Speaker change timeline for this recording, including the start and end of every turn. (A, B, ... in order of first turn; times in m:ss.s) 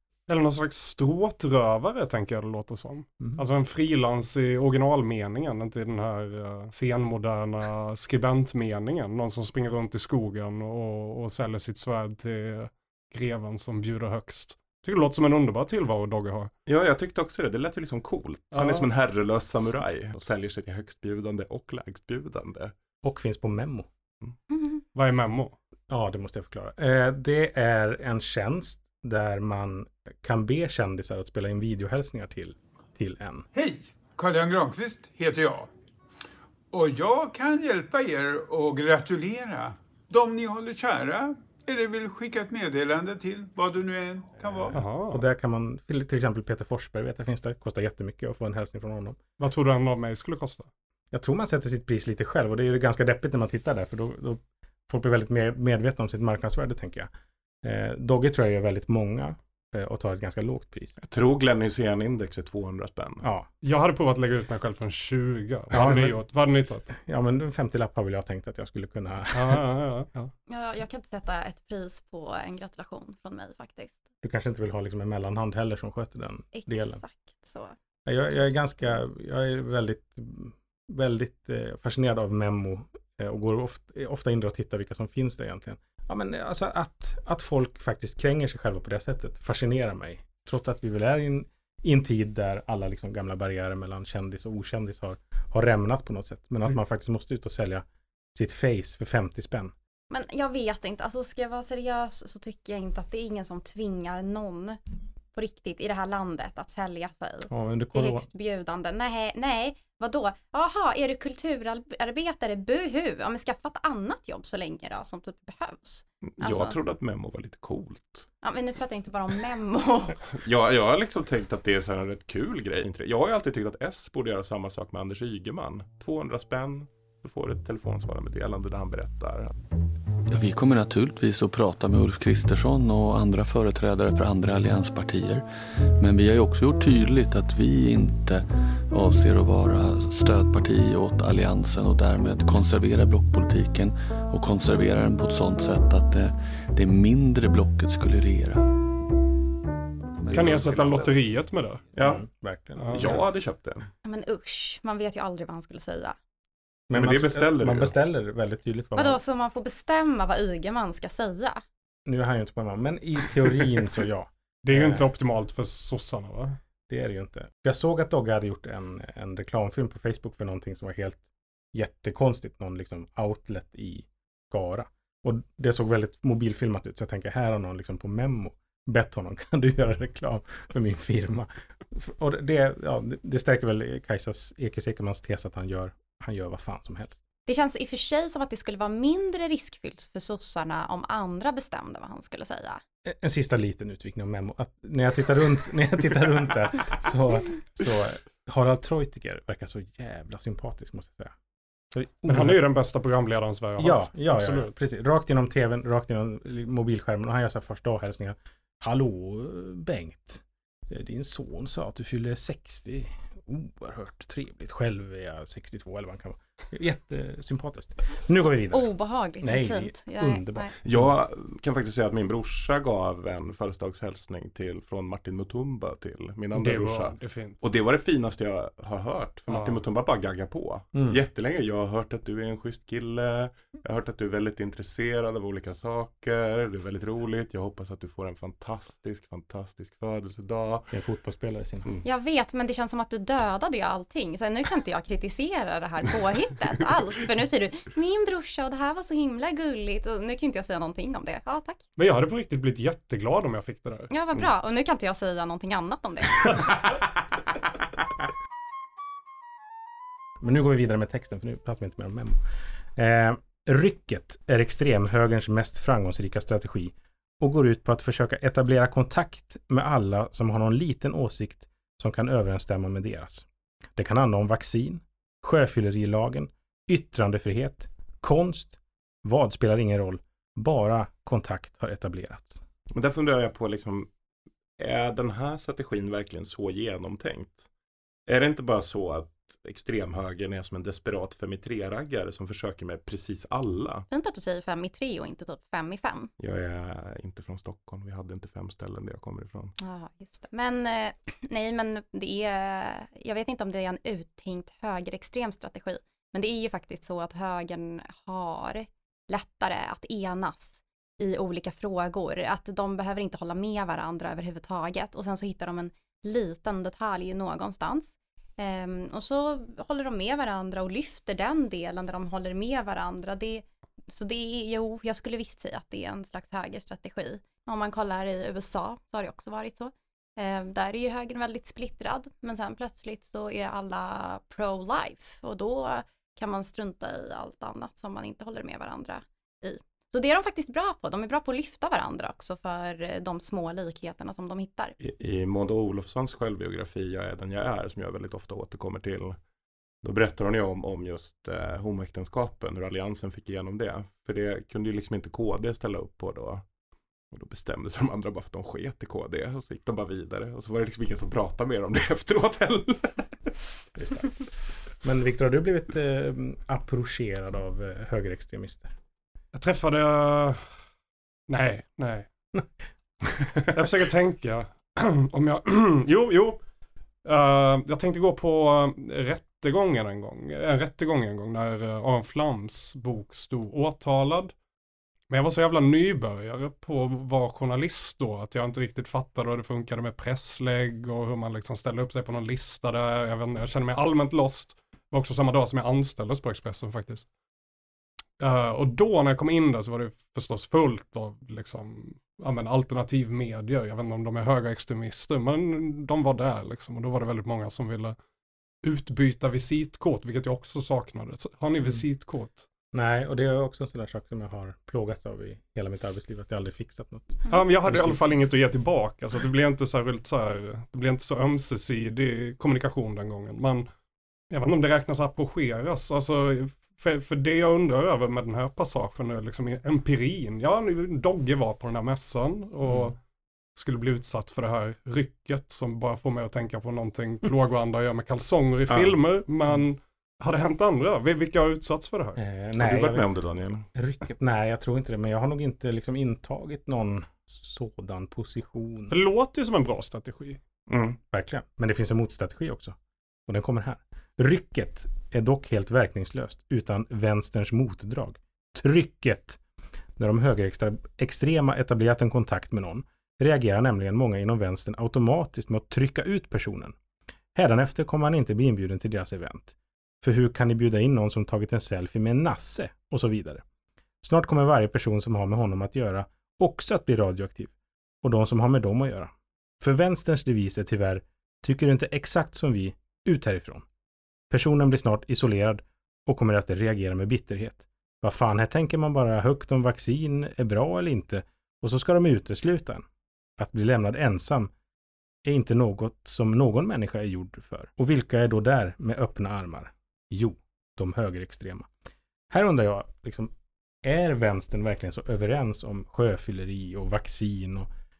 0:00.3-0:16.5 A
0:16.7-0:22.7 B
0:18.5-0:18.8 A
0:23.0-0:23.9 C
0:24.9-0:25.6 A
0:25.9-0:33.5 C
0:33.5-0:35.7 D
0:36.7-0:44.8 D
0:44.6-0:49.2 C
0:44.7-0:45.2 A
0:49.4-0:50.7 A
0:51.1-0:57.1 C
0:57.6-1:00.9 C
1:01.0-1:03.2 B
1:03.2-1:03.5 C
1:03.6-1:06.9 A
1:05.7-1:06.1 C
1:06.9-1:09.6 C
1:09.3-1:10.3 A
1:10.5-1:14.0 E
1:14.2-1:17.0 C
1:16.5-1:17.7 E
1:18.1-1:39.7 C
1:40.1-1:44.8 E
1:45.3-1:56.8 E
1:47.5-1:48.3 C
1:56.3-1:58.3 B
1:58.4-2:00.2 E
2:00.4-2:09.6 B
2:10.3-2:15.4 F
2:16.0-2:29.0 F
2:30.2-2:31.1 F
2:30.3-2:31.8 A
2:32.0-2:32.2 B
2:32.0-2:33.2 C
2:32.8-2:33.2 A
2:32.9-2:33.9 B
2:34.0-2:36.2 E
2:36.9-2:39.2 C
2:36.9-2:37.9 B
2:39.0-2:41.6 E
2:42.1-2:45.0 C
2:44.6-2:46.6 A
2:46.9-3:07.2 C
3:07.4-3:12.8 E
3:13.0-3:21.3 C
3:21.9-3:22.6 C
3:22.3-3:24.7 A
3:23.8-3:41.1 C
3:38.7-3:40.7 E
3:40.8-4:00.9 B
3:46.5-3:47.6 A
3:49.5-3:49.8 A
3:50.9-3:51.2 C
4:00.9-4:01.9 C
4:02.0-4:11.8 E
4:12.0-4:14.1 A
4:14.1-4:16.6 E
4:20.4-4:22.4 C
4:23.0-4:42.6 C
4:42.9-4:44.1 B
4:44.8-4:47.7 B
4:48.3-4:54.1 B
4:54.1-4:56.3 E
4:56.4-4:59.7 B
4:59.8-5:45.0 E
5:45.0-5:49.4 B
5:50.0-5:56.6 B
5:57.3-6:03.3 B
6:04.0-6:04.3 C
6:05.0-6:08.9 C
6:09.5-6:10.6 A
6:11.5-6:12.3 A
6:13.7-6:16.6 A
6:17.2-6:24.5 A
6:25.3-6:37.3 A
6:38.4-6:48.2 A
6:48.8-6:52.6 A
6:52.9-6:58.2 C
6:57.5-7:03.9 A
7:04.5-7:13.2 A
7:13.7-7:22.4 A
7:18.9-7:19.2 B
7:22.4-7:23.3 C
7:22.8-7:23.8 B
7:23.9-7:29.2 C
7:29.1-7:30.6 A
7:30.9-7:31.2 B
7:31.3-7:33.0 C
7:33.5-7:39.6 C
7:40.2-7:47.0 C
7:47.6-7:53.6 C
7:54.2-7:57.7 C
7:58.2-8:03.8 C
8:04.5-8:13.1 C
8:13.6-8:14.7 C
8:15.4-8:21.9 C
8:22.5-8:23.5 C
8:24.0-8:27.9 C